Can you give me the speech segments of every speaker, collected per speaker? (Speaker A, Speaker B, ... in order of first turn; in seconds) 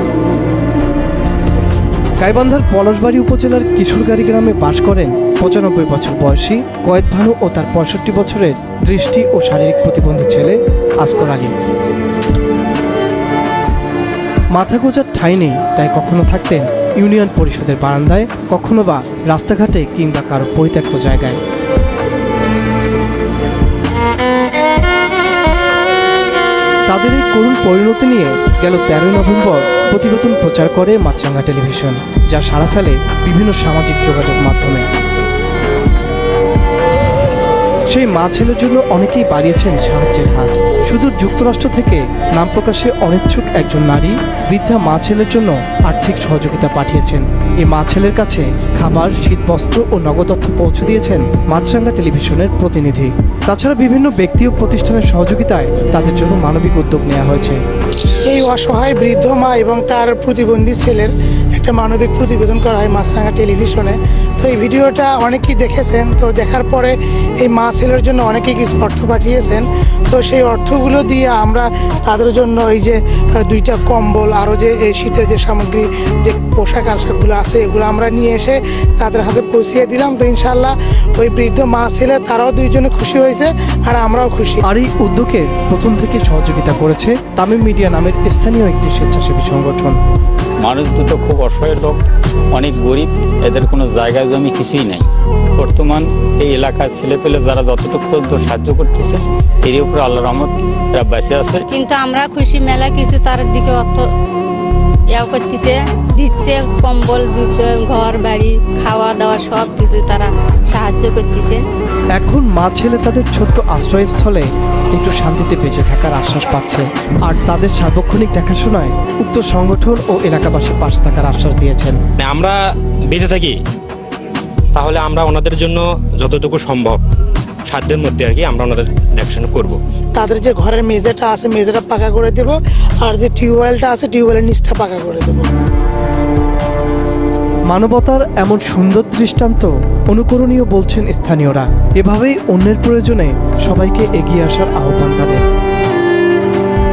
Speaker A: 2.2-11.5, 14.5-21.4, 26.9-34.9, 37.9-57.6, 84.6-90.0, 112.2-122.0, 137.7-145.4
Speaker B: 58.2-84.6, 130.1-135.5
Speaker C: 90.6-92.0, 92.5-101.6
Speaker D: 101.7-104.0, 105.1-111.6
Speaker E: 122.2-122.6, 123.1-123.6, 124.7-127.0, 127.7-129.8